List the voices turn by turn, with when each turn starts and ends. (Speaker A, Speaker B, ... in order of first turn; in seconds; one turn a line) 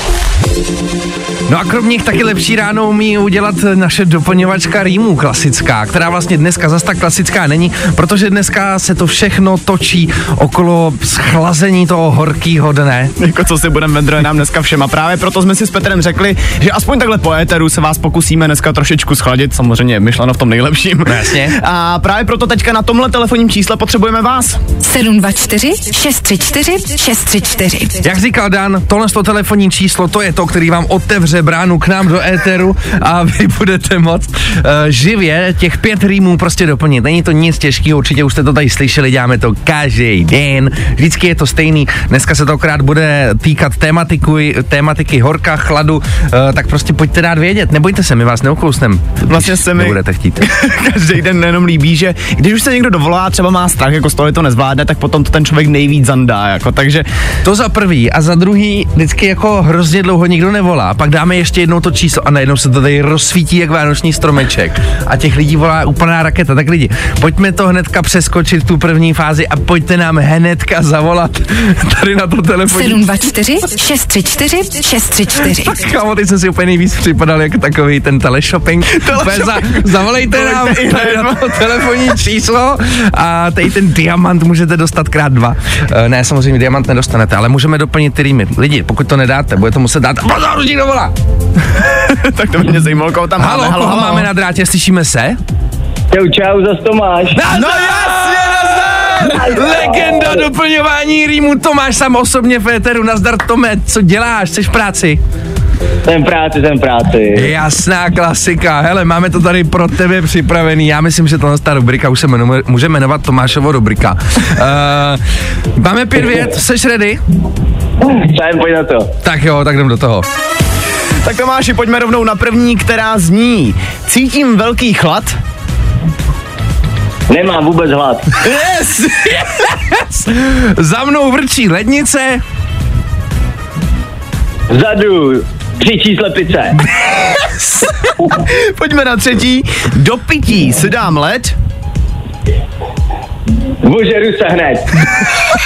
Speaker A: 1.5-13.1
Speaker B: 13.2-24.6
Speaker A: 21.1-21.6
Speaker C: 24.8-28.0
Speaker A: 28.0-50.5
Speaker B: 49.2-57.1
Speaker A: 57.4-73.0
Speaker C: 72.7-75.8
Speaker A: 75.6-91.1
Speaker B: 79.0-81.5
Speaker B: 92.0-94.3
Speaker A: 93.4-95.4
Speaker D: 96.1-97.4
Speaker A: 97.3-105.2
Speaker B: 97.5-99.1
Speaker D: 99.3-100.4
Speaker D: 106.0-107.5
Speaker A: 107.3-115.2
Speaker A: 115.8-117.2
Speaker D: 118.0-119.1
Speaker A: 119.2-120.2
Speaker B: 121.2-125.4
Speaker D: 127.3-128.3
Speaker B: 128.4-129.4
Speaker A: 129.1-132.4
Speaker D: 134.7-136.8
Speaker B: 137.4-141.6
Speaker D: 143.8-145.1